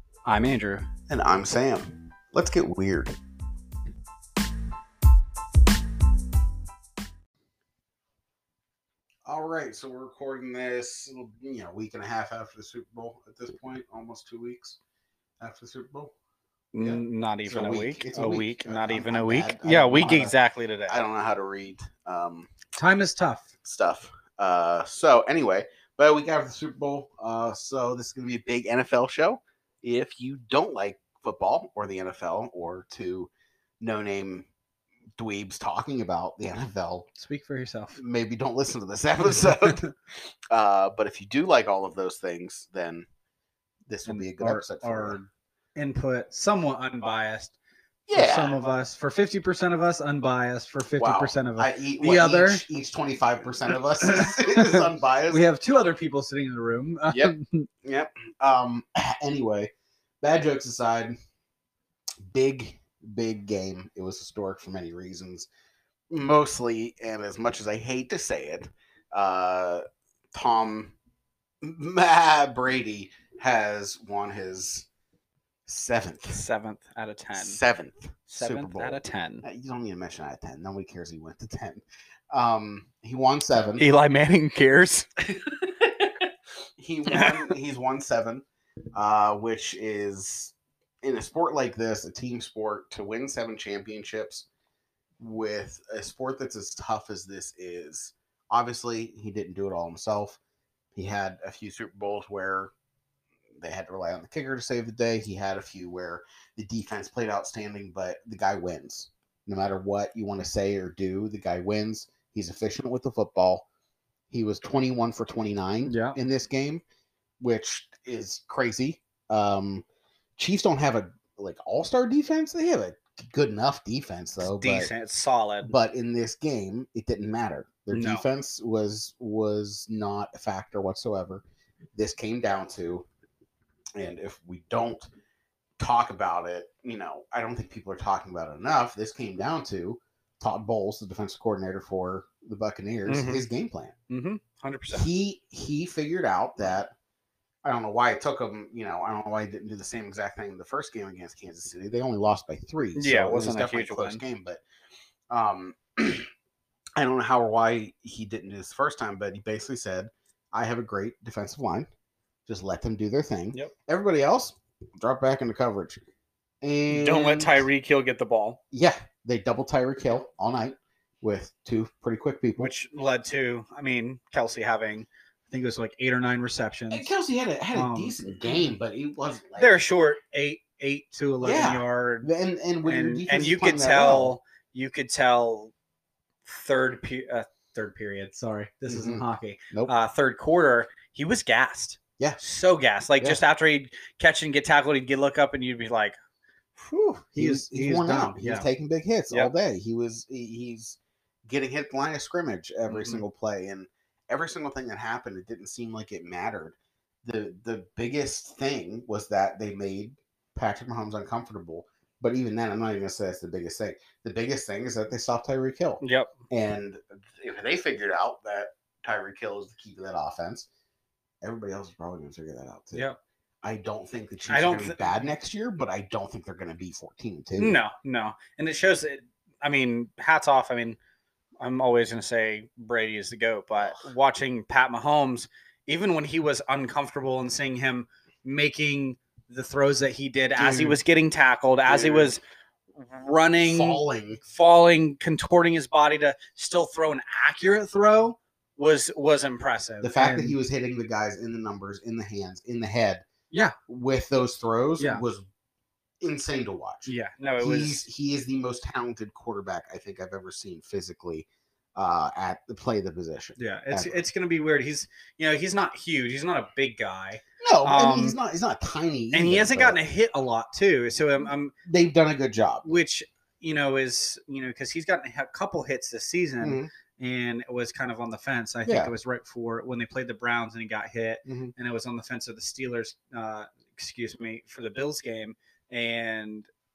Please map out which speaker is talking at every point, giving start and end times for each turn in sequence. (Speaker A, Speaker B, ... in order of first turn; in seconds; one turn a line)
Speaker A: 0.2-0.9
Speaker B: 1.1-3.1
Speaker B: 9.2-14.8
Speaker B: 15.4-16.1
Speaker A: 16.7-21.0
Speaker B: 16.8-20.3
Speaker B: 20.9-22.5
Speaker A: 22.7-23.5
Speaker B: 23.6-34.5
Speaker B: 35.2-37.1
Speaker A: 37.1-38.0
Speaker B: 38.0-39.8
Speaker A: 39.2-39.9
Speaker B: 40.5-43.1
Speaker B: 43.9-45.2
Speaker A: 44.0-45.2
Speaker A: 45.8-47.5
Speaker B: 48.1-48.5
Speaker A: 48.1-52.6
Speaker B: 51.0-55.4
Speaker A: 54.0-57.7
Speaker B: 57.1-61.1
Speaker B: 62.2-65.5
Speaker B: 66.1-70.9
Speaker B: 71.6-74.9
Speaker B: 75.7-76.4
Speaker A: 76.3-77.6
Speaker B: 77.3-83.8
Speaker A: 78.3-79.4
Speaker A: 83.8-85.1
Speaker B: 86.8-88.4
Speaker A: 87.1-87.5
Speaker B: 88.9-94.5
Speaker B: 95.2-100.4
Speaker B: 100.9-102.7
Speaker B: 103.5-113.6
Speaker B: 114.3-116.8
Speaker A: 115.8-116.2
Speaker B: 117.4-119.8
Speaker B: 120.4-124.9
Speaker A: 124.5-125.7
Speaker B: 125.6-131.4
Speaker A: 127.9-128.2
Speaker B: 131.9-133.1
Speaker B: 133.9-135.1
Speaker B: 135.8-143.9
Speaker A: 143.1-143.4
Speaker A: 144.1-145.1
Speaker B: 144.9-146.9
Speaker B: 147.6-154.6
Speaker A: 152.9-154.2
Speaker B: 155.3-156.3
Speaker B: 157.0-161.9
Speaker B: 162.5-166.0
Speaker B: 166.6-167.6
Speaker A: 166.9-168.6
Speaker B: 168.7-172.7
Speaker A: 172.6-177.1
Speaker B: 176.9-179.8
Speaker A: 177.7-178.6
Speaker A: 179.6-182.3
Speaker B: 181.4-184.3
Speaker A: 182.8-185.7
Speaker A: 186.4-196.2
Speaker B: 188.9-189.9
Speaker A: 196.8-198.7
Speaker B: 196.9-220.7
Speaker A: 202.9-203.2
Speaker A: 216.0-216.3
Speaker B: 221.4-223.0
Speaker B: 223.6-227.8
Speaker A: 224.5-225.0
Speaker A: 227.6-231.0
Speaker A: 231.6-242.4
Speaker B: 233.8-234.0
Speaker B: 240.6-241.0
Speaker B: 241.9-242.3
Speaker A: 243.0-250.6
Speaker B: 243.6-244.4
Speaker B: 250.0-253.2
Speaker A: 253.5-253.8
Speaker B: 253.9-255.4
Speaker B: 256.2-264.1
Speaker A: 257.1-258.1
Speaker A: 263.6-268.4
Speaker B: 267.6-270.0
Speaker A: 269.3-271.7
Speaker B: 271.4-272.9
Speaker A: 272.8-286.7
Speaker B: 276.6-276.9
Speaker B: 278.9-279.1
Speaker B: 281.4-281.7